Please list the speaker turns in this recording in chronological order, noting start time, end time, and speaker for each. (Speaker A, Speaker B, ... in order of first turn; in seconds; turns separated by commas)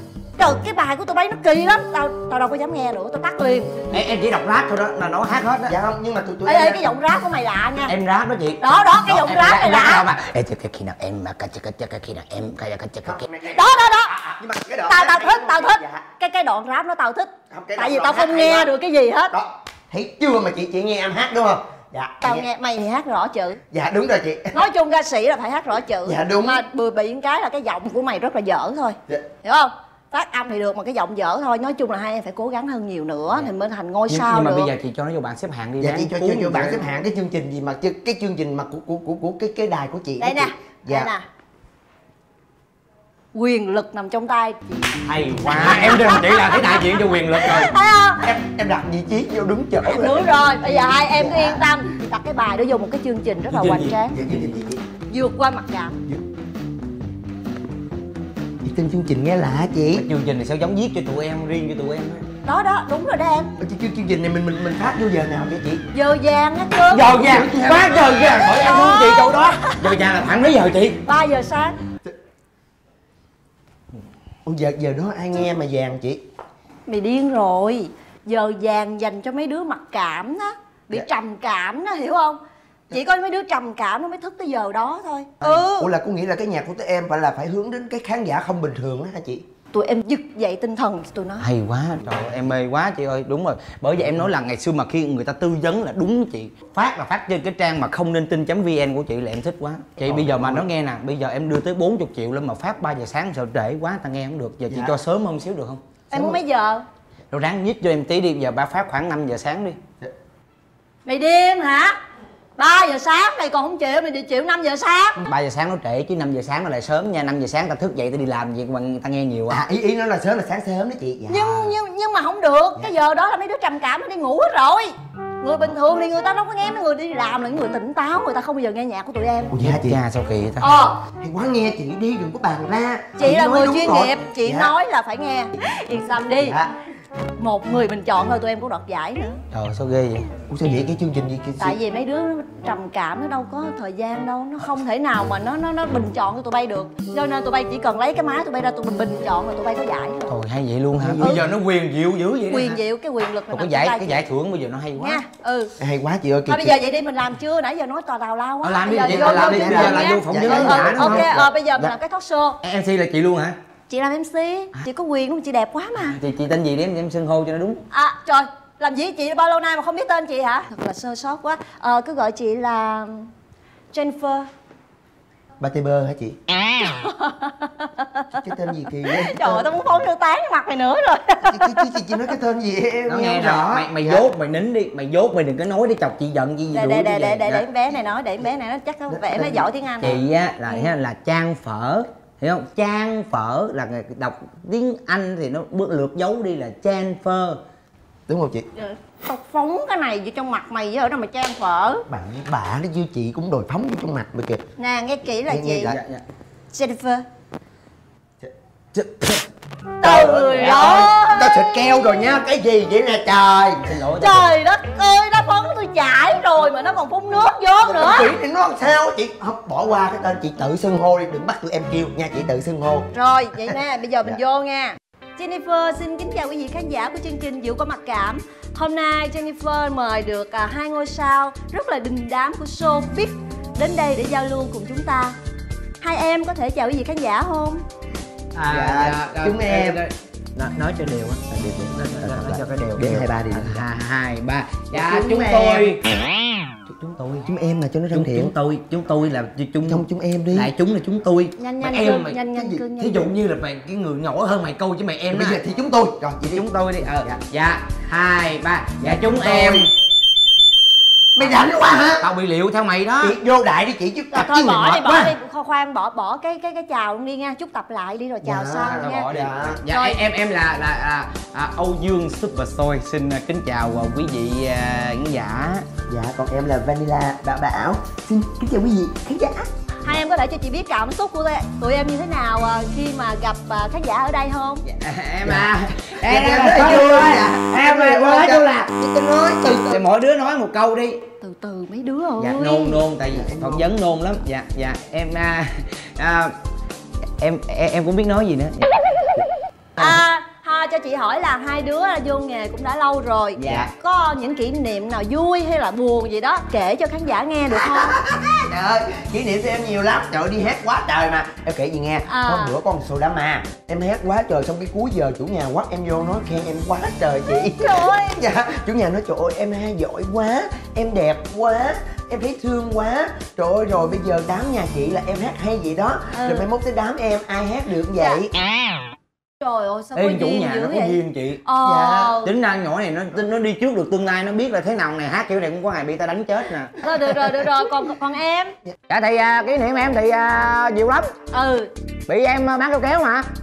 Speaker A: 0.4-3.7, Speaker B: 3.9-5.7, Speaker C: 5.7-6.9, Speaker A: 6.5-7.9, Speaker B: 7.9-13.2, Speaker A: 8.6-10.1, Speaker C: 13.0-16.1, Speaker A: 13.5-14.2, Speaker A: 14.9-19.3, Speaker C: 17.5-18.7, Speaker C: 19.3-22.4, Speaker A: 22.2-23.6, Speaker C: 23.7-24.7, Speaker A: 24.5-34.7, Speaker C: 26.0-26.6, Speaker B: 34.1-36.8, Speaker C: 35.8-41.1, Speaker A: 40.2-41.3, Speaker A: 43.3-48.2, Speaker B: 45.0-47.7, Speaker C: 48.2-51.6, Speaker A: 49.9-54.2, Speaker B: 53.5-54.4, Speaker C: 54.1-54.8, Speaker A: 55.1-55.9, Speaker C: 58.6-60.0, Speaker B: 59.9-62.2, Speaker A: 62.4-63.5, Speaker C: 63.6-65.8, Speaker A: 65.9-67.2, Speaker B: 66.9-71.0, Speaker C: 67.1-68.2, Speaker A: 68.1-69.9, Speaker A: 71.0-71.7, Speaker C: 74.4-76.2, Speaker A: 76.9-82.4, Speaker A: 82.9-85.9, Speaker C: 85.4-89.4, Speaker A: 89.7-91.5, Speaker B: 91.4-105.8, Speaker C: 100.0-100.7, Speaker C: 104.7-105.0, Speaker C: 106.1-106.4, Speaker A: 106.1-106.8, Speaker B: 107.3-109.8, Speaker A: 111.0-112.0, Speaker A: 112.6-115.2, Speaker B: 115.2-119.6, Speaker C: 119.5-121.7, Speaker A: 121.3-129.5, Speaker C: 129.5-130.0, Speaker B: 129.6-130.7, Speaker A: 130.6-131.0, Speaker C: 131.2-134.7, Speaker A: 133.2-136.6, Speaker C: 136.4-136.7, Speaker A: 137.4-139.4, Speaker B: 139.5-140.3, Speaker C: 140.5-141.8, Speaker A: 141.6-150.4, Speaker B: 150.3-152.8, Speaker C: 150.9-151.5, Speaker A: 151.2-151.5, Speaker A: 152.5-154.2, Speaker B: 153.5-155.2, Speaker A: 155.0-155.7, Speaker C: 155.8-156.8, Speaker A: 156.5-162.6, Speaker B: 158.6-161.9, Speaker C: 158.9-161.5, Speaker B: 162.6-163.6, Speaker A: 163.9-166.2, Speaker B: 166.0-167.8, Speaker A: 167.9-173.3, Speaker A: 173.9-174.5, Speaker C: 175.6-176.4, Speaker A: 176.8-178.4, Speaker C: 178.3-179.9, Speaker A: 179.0-182.2, Speaker C: 181.4-184.3, Speaker B: 183.1-187.6, Speaker A: 186.7-190.2, Speaker C: 189.1-189.7, Speaker B: 190.0-197.6, Speaker C: 198.3-198.7, Speaker A: 198.8-202.0, Speaker C: 202.1-204.6, Speaker A: 204.8-205.9, Speaker C: 205.5-206.0, Speaker B: 205.9-206.2, Speaker A: 206.7-207.2, Speaker C: 208.4-209.4, Speaker C: 210.0-213.9, Speaker A: 210.0-211.7, Speaker B: 210.5-211.1, Speaker B: 213.9-214.4, Speaker A: 214.2-218.3, Speaker C: 217.8-224.4, Speaker A: 223.1-235.3, Speaker A: 236.0-237.8, Speaker B: 238.5-246.0, Speaker C: 238.7-240.0, Speaker C: 241.5-243.8, Speaker C: 244.9-246.0, Speaker C: 246.9-248.5, Speaker B: 247.0-247.5, Speaker B: 248.1-252.4, Speaker C: 249.8-250.7, Speaker A: 251.6-253.3, Speaker C: 252.5-252.8, Speaker B: 253.0-255.6, Speaker C: 255.3-257.4, Speaker B: 256.5-259.9, Speaker C: 259.0-259.9, Speaker C: 261.3-262.3, Speaker B: 261.4-263.4, Speaker C: 263.2-265.3, Speaker A: 264.3-269.3, Speaker C: 268.4-269.8, Speaker B: 268.9-275.9, Speaker A: 269.9-270.2, Speaker C: 276.1-279.7, Speaker A: 280.0-284.8, Speaker B: 284.8-288.9, Speaker C: 285.4-290.0, Speaker B: 289.8-291.2, Speaker A: 291.4-293.0, Speaker B: 292.4-296.5, Speaker C: 293.3-293.9, Speaker B: 297.4-298.9, Speaker A: 300.0-308.1, Speaker B: 303.6-303.9, Speaker C: 307.7-328.5, Speaker A: 312.3-312.7, Speaker A: 317.6-318.4, Speaker A: 326.4-326.7, Speaker A: 329.6-332.5, Speaker B: 330.1-331.6, Speaker C: 331.8-332.4, Speaker B: 332.4-337.0, Speaker A: 337.0-338.8, Speaker B: 339.1-341.3, Speaker A: 341.5-341.9, Speaker B: 342.3-343.5